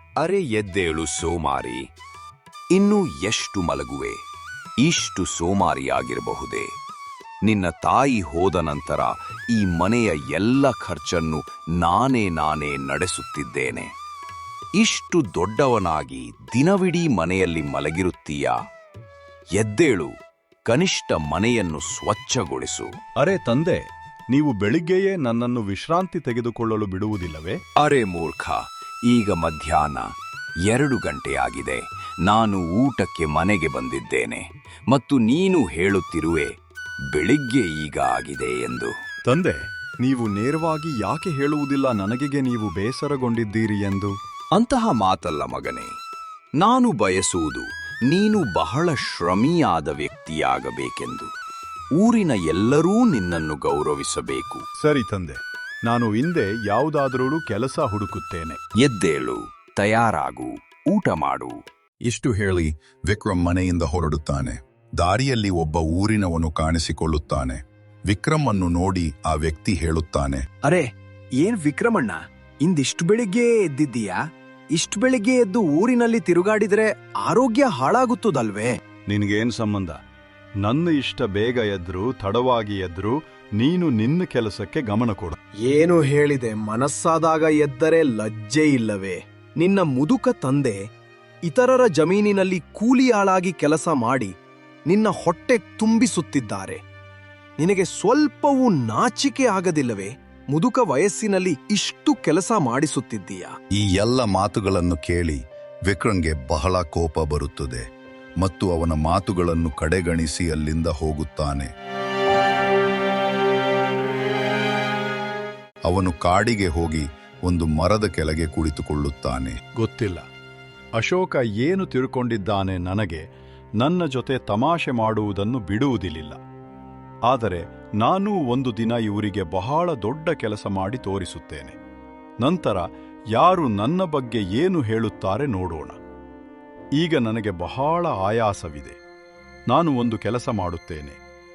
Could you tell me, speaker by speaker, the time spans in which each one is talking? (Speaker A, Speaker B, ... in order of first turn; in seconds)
Speaker A: 0.2-1.8, 2.8-4.2, 4.8-6.7, 7.5-13.9, 14.8-17.8, 19.6-20.1, 20.7-21.9, 28.5-30.1, 30.7-36.5, 37.2-38.2, 46.6-51.2, 52.0-52.6, 61.0-61.3
Speaker B: 23.2-27.6, 39.3-44.1, 54.8-58.6, 79.1-80.0, 80.6-85.4, 119.8-120.3, 121.0-123.2, 123.8-126.4, 127.3-131.8, 132.4-136.0, 137.0-139.0, 139.7-141.2
Speaker C: 62.0-70.5, 103.8-107.8, 108.4-111.7, 115.8-119.6
Speaker D: 71.4-74.2, 74.8-78.8, 85.7-90.8, 91.5-94.3, 94.9-96.8, 97.6-103.6